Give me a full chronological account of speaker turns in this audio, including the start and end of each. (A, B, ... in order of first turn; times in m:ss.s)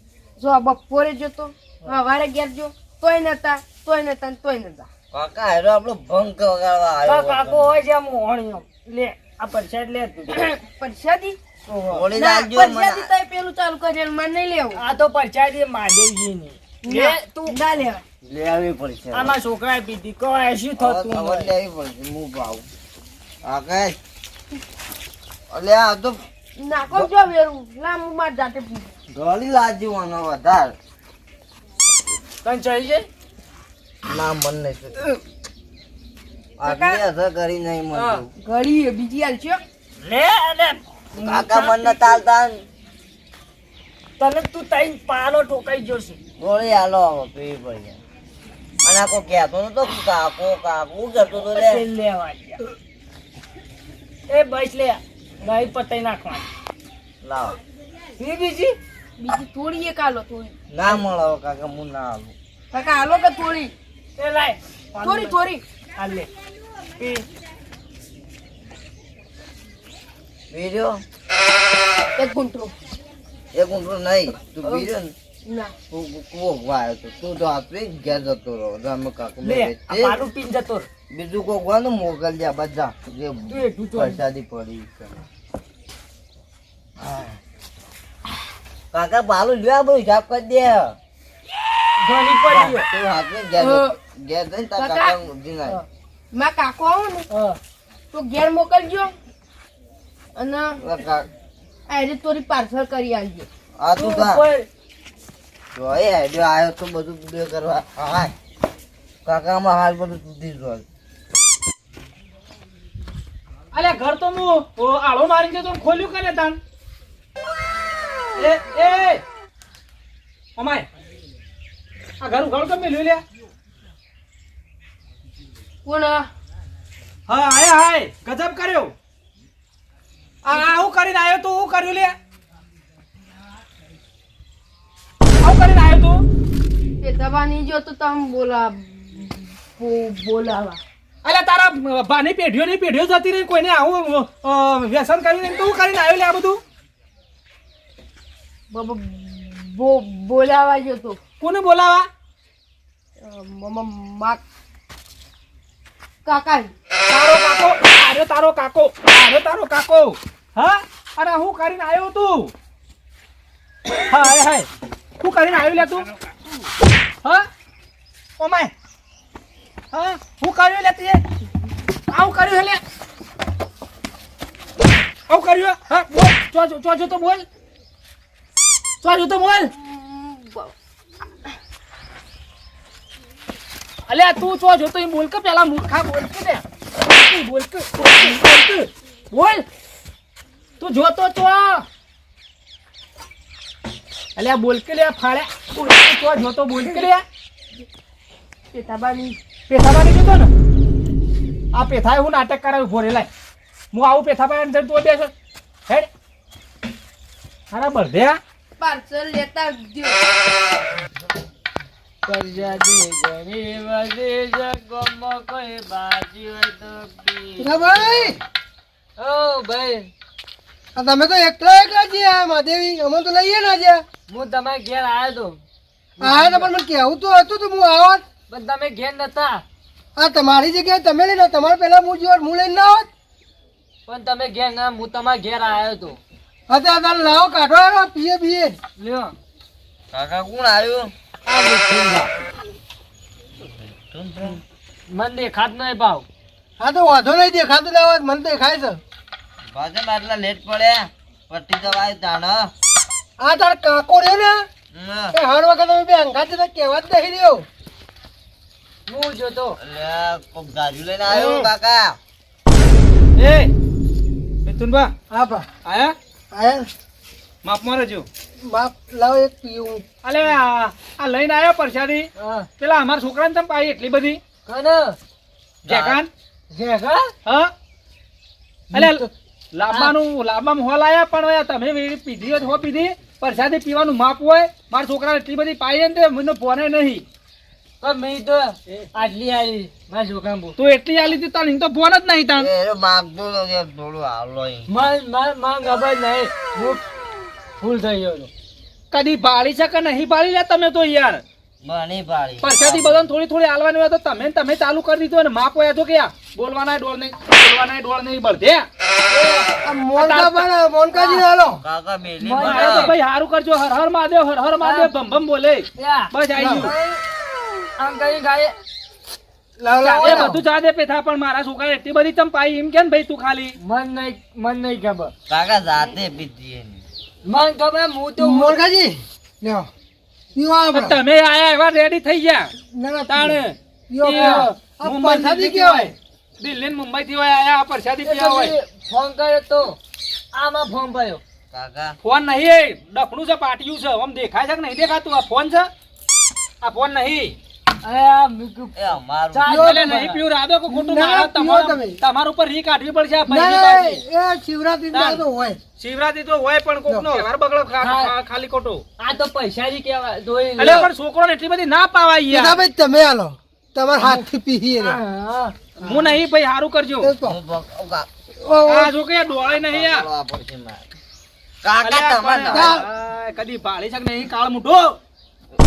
0:00.4-0:04.9 A
0:05.1-0:07.8 B
0:07.0-0:10.5 C
0:10.3-0:11.4 A
0:11.6-0:12.0 C
0:11.9-0:13.1 B
0:12.1-0:14.8 A
0:14.7-0:17.6 C
0:16.8-0:18.0 A
0:18.2-0:19.4 B
0:19.1-0:21.5 C
0:20.8-0:22.6 B
0:23.4-0:24.0 B
0:25.5-0:26.2 B
0:26.6-0:28.9 A
0:29.1-0:30.7 B
0:32.4-0:33.1 C
0:34.0-0:35.0 B
0:36.6-0:38.3 B
0:36.6-0:37.0 A
0:37.9-0:38.2 C
0:38.4-0:39.6 A
0:40.0-0:42.2 C
0:41.1-0:42.6 B
0:44.2-0:46.2 C
0:46.4-0:48.0 B
0:48.8-0:51.8 B
0:51.4-0:52.6 C
0:54.3-0:56.4 C
0:57.2-0:57.6 B
0:58.2-0:58.8 C
0:59.2-1:00.5 A
1:00.7-1:02.3 B
1:02.7-1:03.7 A
1:04.2-1:05.4 C
1:05.0-1:05.6 A
1:06.0-1:06.3 C
1:07.0-1:07.3 C
1:10.5-1:11.0 B
1:12.2-1:12.7 A
1:13.5-1:15.1 B
1:14.6-1:14.9 A
1:15.4-1:15.7 A
1:15.9-1:20.2 B
1:19.4-1:20.9 C
1:21.1-1:25.2 B
1:23.5-1:24.2 C
1:28.9-1:31.0 B
1:32.0-1:32.9 C
1:32.5-1:35.8 B
1:33.6-1:33.9 A
1:34.8-1:35.2 A
1:36.3-1:37.3 A
1:37.3-1:37.6 C
1:38.1-1:39.1 A
1:40.4-1:40.8 A
1:40.8-1:41.3 B
1:41.9-1:43.5 A
1:43.8-1:44.4 B
1:44.0-1:44.7 C
1:45.7-1:48.3 B
1:49.2-1:50.8 B
1:53.7-1:56.6 D
1:58.4-1:59.2 D
2:00.6-2:00.9 D
2:02.2-2:03.2 D
2:05.8-2:06.3 A
2:07.3-2:08.9 D
2:10.4-2:12.1 D
2:15.4-2:16.2 D
2:17.0-2:20.8 A
2:21.2-2:26.6 D
2:28.7-2:31.2 A
2:31.4-2:32.1 D
2:33.2-2:34.4 A
2:36.2-2:36.7 A
2:37.1-2:42.5 D
2:44.1-2:44.7 D
2:45.2-2:46.1 D
2:48.4-2:48.7 D
2:49.9-2:51.2 D
2:52.1-2:52.8 D
2:55.3-2:57.4 D
2:59.0-2:59.7 D
2:59.7-3:00.7 A
3:04.1-3:09.6 D
3:10.8-3:11.8 D
3:14.4-3:17.2 D
3:18.7-3:19.4 A
3:19.7-3:20.5 D
3:21.7-3:23.3 D
3:23.9-3:25.3 D
3:27.7-3:28.4 D
3:28.8-3:30.2 A
3:32.2-3:38.3 C
3:37.6-3:38.4 E
3:39.2-3:40.1 C
3:41.0-3:44.0 E
3:44.3-3:45.6 C
3:46.2-3:46.7 C
3:46.2-3:48.2 E
3:48.5-3:49.6 C
3:50.2-3:53.1 E
3:54.1-3:56.2 C
3:56.7-3:58.8 E
3:59.0-3:59.3 C
4:00.1-4:01.1 B
4:01.4-4:02.3 C
4:04.0-4:04.6 B
4:05.1-4:06.2 C
4:06.8-4:09.0 E
4:09.7-4:12.7 B
4:13.4-4:14.6 E
4:14.9-4:15.4 B
4:15.3-4:17.7 E
4:19.1-4:19.8 C
4:19.8-4:22.2 B
4:21.3-4:21.7 D
4:23.4-4:23.7 D
4:24.6-4:25.1 D
4:25.3-4:25.7 E
4:25.8-4:26.2 D
4:26.5-4:26.9 E
4:27.6-4:28.2 D
4:28.6-4:30.0 E
4:30.2-4:32.3 D
4:32.4-4:32.7 C
4:32.8-4:34.4 D
4:34.7-4:35.2 C
4:35.8-4:36.2 B
4:35.9-4:36.3 D
4:36.7-4:37.3 C
4:37.4-4:37.7 D
4:38.9-4:39.2 E
4:38.9-4:47.2 D
4:39.9-4:40.2 C
4:48.0-4:50.8 C
4:50.8-4:52.7 D
4:52.6-4:55.0 B
4:54.9-4:57.0 C
4:57.8-4:58.5 C
4:59.1-5:01.4 D
5:01.8-5:03.3 B
5:02.6-5:08.9 D
5:09.3-5:09.7 C
5:09.8-5:11.8 E
5:10.2-5:10.6 D
5:11.1-5:11.5 C
5:11.8-5:13.1 B
5:12.4-5:13.1 C
5:12.6-5:16.9 D
5:14.8-5:15.2 C
5:16.0-5:17.2 C
5:16.5-5:16.9 E
5:18.0-5:18.7 C
5:19.8-5:20.6 E
5:20.0-5:20.6 C
5:20.2-5:23.7 D
5:23.8-5:25.3 C
5:25.5-5:27.0 B
5:27.4-5:28.8 C
5:28.4-5:29.9 E
5:30.5-5:31.2 E
5:30.9-5:32.7 D
5:32.9-5:36.1 E
5:33.3-5:38.7 D
5:38.2-5:40.0 C
5:40.5-5:41.4 C
5:41.7-5:42.2 B
5:42.2-5:45.9 D
5:46.8-5:47.6 D
5:48.0-5:48.9 C
5:48.9-5:49.8 B
5:49.5-5:50.4 C
5:49.6-5:50.2 E
5:49.7-5:54.2 D
5:50.9-5:52.2 E
5:53.5-5:55.8 E
5:55.1-5:55.4 D
5:56.0-5:59.0 D
5:57.1-5:57.4 E
5:58.0-5:58.3 C
5:59.2-6:01.1 C
6:00.8-6:02.8 D
6:02.5-6:05.2 E
6:04.2-6:04.4 D
6:05.0-6:05.8 C
6:06.0-6:06.4 E
6:06.0-6:07.3 D
6:07.2-6:07.6 E
6:07.4-6:08.3 B
6:08.6-6:09.1 E
6:08.8-6:10.3 D
6:09.6-6:11.1 B
6:11.8-6:13.0 B
6:12.0-6:15.2 D
6:12.7-6:13.0 E